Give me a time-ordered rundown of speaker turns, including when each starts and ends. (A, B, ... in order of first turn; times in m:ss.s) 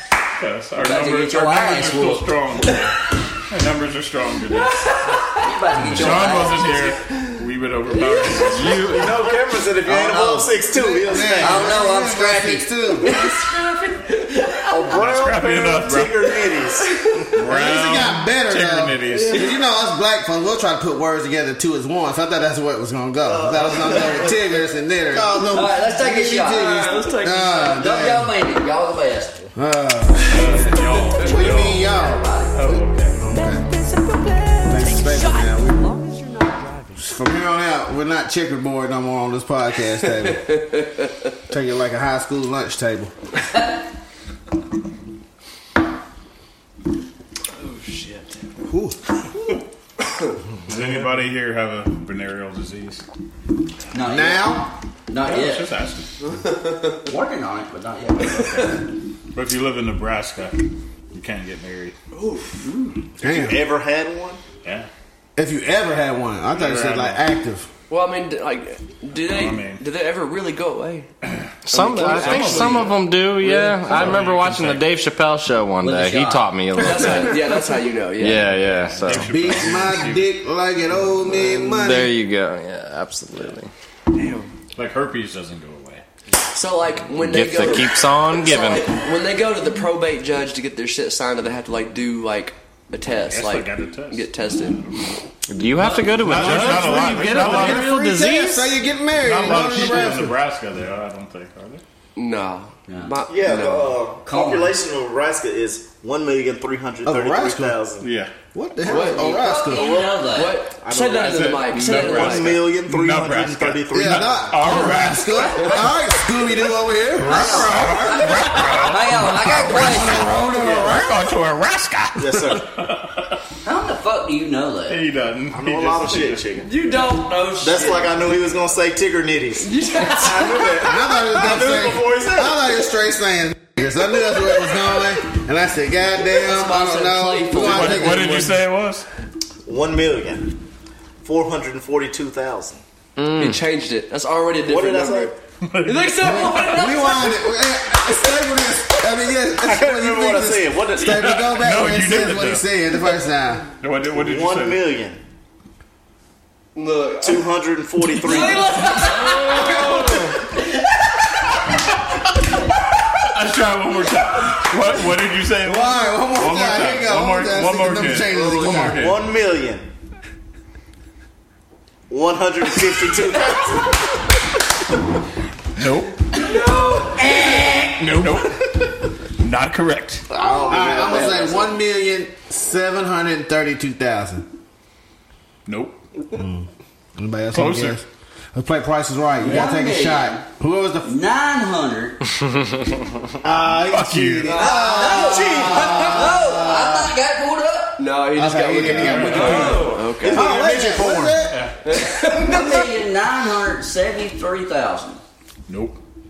0:00.4-0:03.0 A
0:00.8-0:02.4 B
0:03.5-0:04.8 A
0:04.5-0:05.5 C
0:05.3-0:06.8 B
0:05.9-0:09.0 A
0:07.9-0:08.8 C
0:08.5-0:09.1 D
0:08.8-0:11.9 E
0:10.8-0:13.2 F
0:11.2-0:13.7 B
0:13.1-0:15.0 C
0:14.7-0:17.2 E
0:14.9-0:16.3 A
0:16.8-0:17.3 C
0:17.4-0:19.5 A
0:17.5-0:28.4 F
0:23.3-0:24.3 E
0:23.9-0:24.3 C
0:25.5-0:26.9 B
0:26.5-0:27.8 C
0:27.7-0:29.5 B
0:29.6-0:33.7 F
0:30.3-0:31.9 A
0:31.2-0:32.6 B
0:32.5-0:33.2 A
0:34.0-0:34.6 C
0:34.6-0:35.9 F
0:37.0-0:40.5 F
0:40.3-0:41.1 C
0:41.5-0:43.1 F
0:47.6-0:48.4 C
0:48.7-0:49.0 F
0:50.7-0:53.0 A
0:53.9-0:55.7 B
0:54.0-0:54.7 F
0:55.2-0:56.1 A
0:56.4-0:57.0 C
0:57.0-0:58.8 B
0:59.3-1:02.0 A
1:02.1-1:02.6 C
1:02.7-1:02.9 B
1:03.2-1:04.4 E
1:03.2-1:03.7 F
1:04.6-1:04.9 A
1:05.4-1:07.7 F
1:06.5-1:07.2 A
1:07.9-1:11.1 C
1:09.2-1:09.8 A
1:11.2-1:14.9 A
1:11.7-1:17.4 D
1:12.0-1:12.8 C
1:15.8-1:17.2 B
1:16.8-1:18.6 C
1:18.2-1:19.3 D
1:18.4-1:20.3 A
1:19.1-1:22.2 F
1:21.4-1:23.7 D
1:24.1-1:24.5 C
1:24.8-1:26.0 A
1:26.5-1:34.9 C
1:27.2-1:28.9 D
1:33.2-1:35.1 A
1:35.5-1:38.8 D
1:35.8-1:36.9 C
1:36.2-1:38.0 A
1:37.2-1:40.4 F
1:39.1-1:41.8 A
1:42.2-1:44.0 C
1:42.9-1:43.2 B
1:43.3-1:48.1 E
1:44.2-1:44.8 B
1:47.0-1:47.8 F
1:48.0-1:48.3 A
1:48.5-1:50.0 F
1:48.8-1:52.6 C
1:48.9-1:50.6 B
1:49.7-1:54.5 E
1:51.1-1:55.7 A
1:53.9-1:58.4 F
1:57.2-2:03.4 A
1:57.2-2:00.3 B
1:59.7-2:01.3 F
2:02.2-2:02.7 E
2:03.6-2:05.0 B
2:04.9-2:06.6 A
2:05.5-2:06.8 E
2:06.6-2:08.2 C
2:07.6-2:12.7 E
2:09.6-2:10.8 C
2:10.8-2:18.5 F
2:16.3-2:18.5 C
2:17.5-2:19.1 A
2:19.7-2:20.5 E
2:21.2-2:22.8 E
2:23.2-2:23.6 D
2:23.4-2:27.5 C
2:24.6-2:25.3 E
2:25.6-2:26.7 A
2:26.2-2:33.7 F
2:29.6-2:31.2 E
2:31.0-2:32.7 A
2:33.8-2:35.0 A
2:34.1-2:35.2 E
2:36.8-2:37.5 C
2:37.2-2:40.0 E
2:38.1-2:40.3 C
2:43.2-2:49.3 A
2:45.6-2:49.1 F
2:48.3-2:49.9 E
2:52.1-2:53.9 E
2:55.8-2:56.3 A
2:56.3-2:57.6 C
2:57.2-2:58.3 B
2:57.9-2:58.8 A
2:59.4-3:00.3 A
3:00.3-3:01.6 E
3:00.4-3:04.5 F
3:00.9-3:01.4 B
3:05.7-3:06.0 A
3:06.4-3:11.2 F
3:07.5-3:08.0 A
3:09.4-3:10.4 B
3:11.0-3:12.2 B
3:13.4-3:17.1 F
3:13.5-3:14.6 A
3:14.5-3:16.1 C
3:14.5-3:16.2 E
3:14.5-3:18.0 B
3:18.0-3:20.5 C
3:18.3-3:21.6 F
3:18.8-3:20.4 A
3:20.2-3:21.4 E
3:21.3-3:21.8 A
3:21.8-3:22.8 C
3:22.1-3:25.2 B
3:25.7-3:26.0 A